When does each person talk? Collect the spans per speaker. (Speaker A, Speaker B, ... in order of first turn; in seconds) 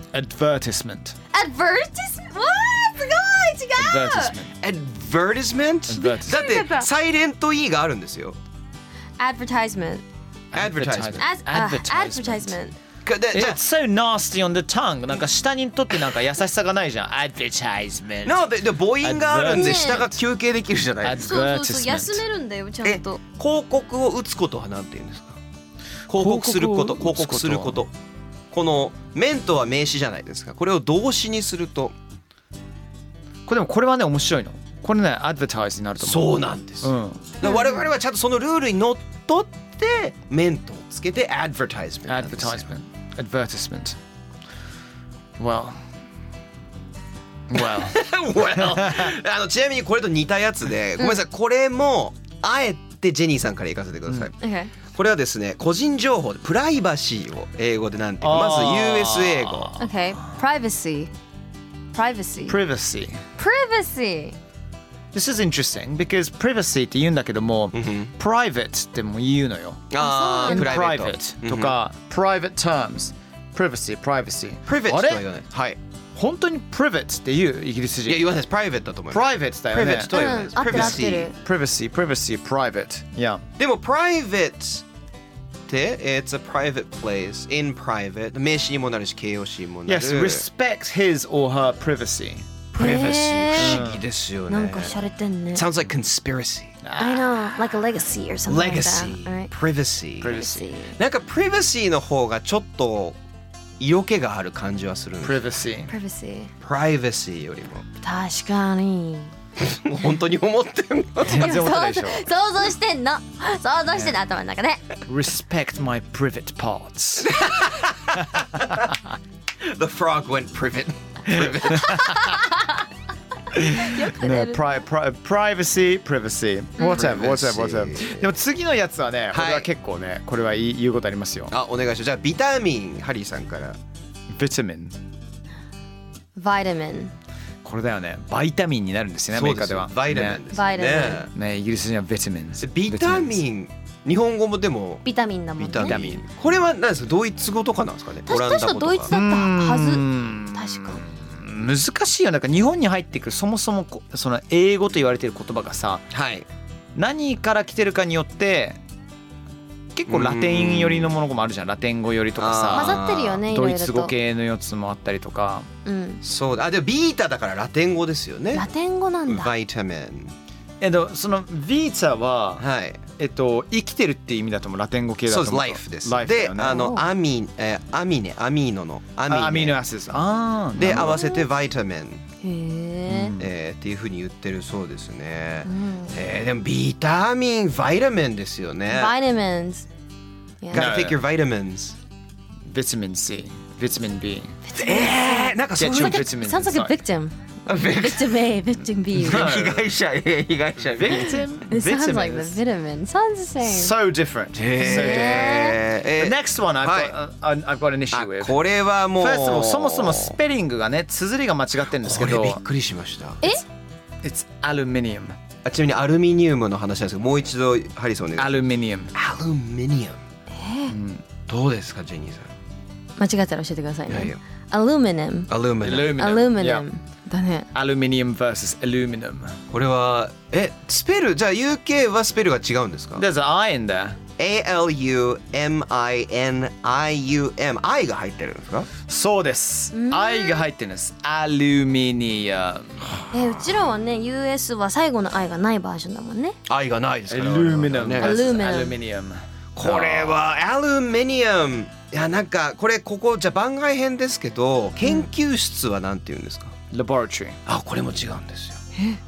Speaker A: 0.1-1.1, 3.8-4.5, 5.9-6.4, 10.5-12.6, 13.3-18.4, 19.0-20.2, 21.0-22.2, 26.1-27.8, 33.5-37.3, 42.1-44.0, 45.4-45.8, 47.5-48.0, 48.5-49.1, 58.2-59.9, 62.5-63.2, 65.1-69.9, 70.4-75.2, 76.2-78.3, 79.1-83.4, 89.8-92.5, 93.5-94.0, 96.8-97.4, 100.2-100.7, 105.2-105.9, 111.2-112.2, 115.1-117.3, 121.3-122.2, 123.5-131.5, 134.3-134.9, 137.6-140.4, 141.3-143.4, 145.7-146.2, 149.1-156.1, 156.9-158.8, 159.9-165.7, 170.8-172.6, 173.2-176.9, 179.3-181.2, 183.1-183.5, 190.7-191.2, 192.6-194.6, 195.8-196.9, 199.2-199.8, 201.0-202.6, 203.6-205.6, 206.2-208.6, 209.1-212.6, 214.2-215.4, 218.4-219.1, 220.9-221.2, 225.8-226.8, 227.7-229.6, 233.2-234.2, 239.1-243.2, 247.3-250.4, 256.9-257.6
Speaker B: 1.3-4.3, 6.0-6.9, 9.2-10.0, 11.2-12.8, 19.5-20.1, 21.2-23.2, 37.4-37.9, 54.4-54.7, 59.8-61.1, 61.9-62.6, 63.4-64.3, 70.0-70.8, 80.0-81.3, 92.8-93.9, 94.5-95.6, 97.0-99.5, 100.2-101.0, 105.9-106.5, 108.0-109.3, 111.3-114.8, 122.2-122.7, 123.8-124.6, 136.3-137.1, 140.5-141.3, 145.0-146.0, 148.3-151.0, 162.7-164.1, 165.8-166.2, 168.5-169.5, 176.6-177.0, 180.9-181.4, 182.4-183.4, 185.6-186.2, 188.9-189.8, 190.6-190.9, 194.7-199.6, 201.7-203.9, 204.8-205.8, 220.5-220.9, 223.2-225.5, 226.1-227.7, 239.9-240.6, 243.3-246.6, 248.2-249.0
Speaker C: 4.6-8.4, 10.5-11.2, 13.0-13.6, 18.2-21.3, 22.8-25.4, 26.1-27.9, 28.5-31.9, 36.0-42.6, 47.7-59.7, 67.7-68.1, 69.9-71.8, 74.7-75.8, 78.0-81.3, 83.6-84.8, 85.7-90.4, 92.7-94.9, 95.5-96.8, 98.5-100.4, 101.0-103.2, 103.8-105.4, 106.6-107.8, 109.6-111.6, 117.2-118.9, 119.6-122.5, 126.8-128.2, 129.3-129.7, 131.5-133.8, 139.3-141.3, 142.6-145.1, 145.6-149.1, 156.1-156.5, 160.1-161.1, 162.4-163.4, 166.2-168.7, 169.3-170.3, 172.6-173.0, 175.3-179.8, 180.7-182.2, 183.3-189.1, 190.7-192.0, 194.8-196.2, 197.7-198.4, 199.2-201.4, 204.5-207.1, 208.1-210.3, 212.0-213.5, 215.6-218.5, 219.1-220.2, 221.5-222.5, 224.1-224.4, 225.5-226.3, 229.7-233.2, 234.4-238.9, 246.7-248.6, 249.8-256.7, 257.7-258.8